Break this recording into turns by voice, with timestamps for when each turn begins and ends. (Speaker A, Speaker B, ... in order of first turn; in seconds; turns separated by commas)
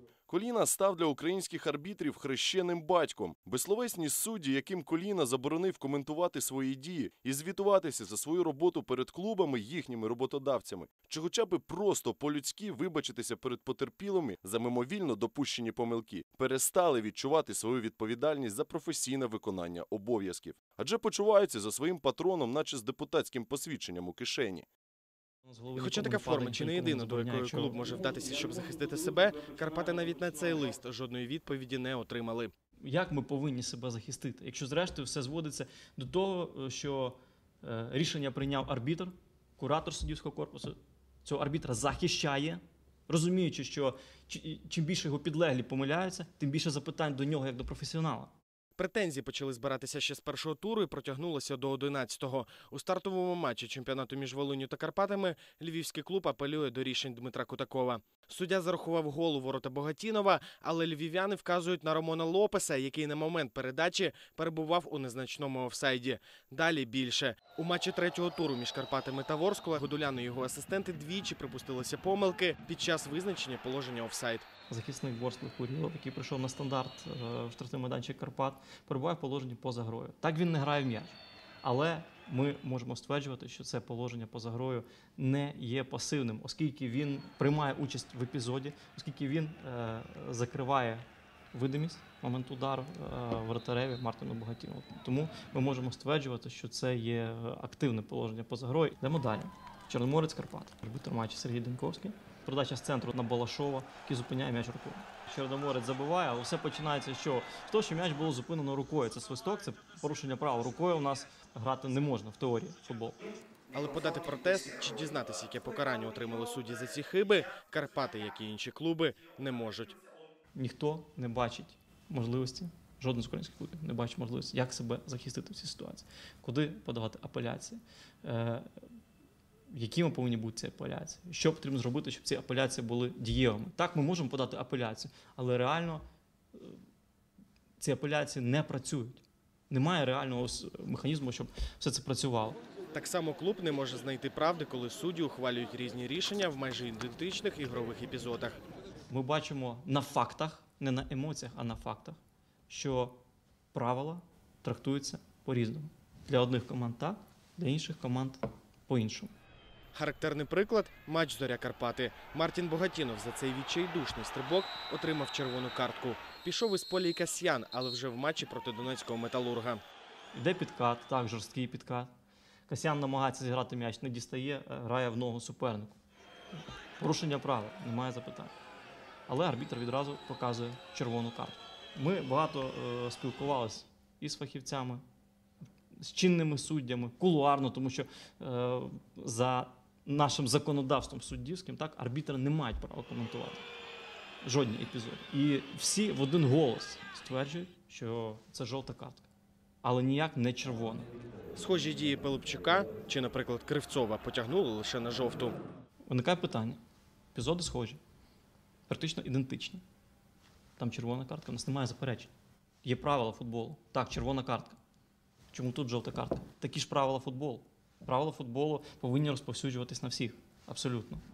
Speaker A: 0.3-24.6, Speaker B: 25.4-27.8, Speaker C: 25.8-32.5, Speaker B: 32.8-48.3, Speaker C: 48.8-74.5, Speaker B: 74.7-113.2, Speaker C: 113.7-120.0, Speaker B: 120.5-128.7, Speaker B: 129.7-136.0, Speaker B: 136.5-136.8, Speaker B: 137.8-142.6, Speaker C: 142.9-148.6, Speaker B: 149.1-153.2, Speaker B: 153.7-159.3, Speaker C: 159.9-169.8, Speaker B: 170.3-172.1, Speaker B: 172.7-175.9, Speaker B: 177.0-178.5, Speaker B: 179.3-185.0, Speaker B: 185.9-193.6, Speaker B: 194.4-199.3, Speaker B: 199.8-201.1, Speaker C: 201.5-205.6, Speaker B: 206.1-206.8, Speaker B: 207.3-208.0, Speaker B: 208.9-209.8, Speaker B: 210.8-212.3, Speaker B: 212.8-214.8, Speaker B: 215.5-221.2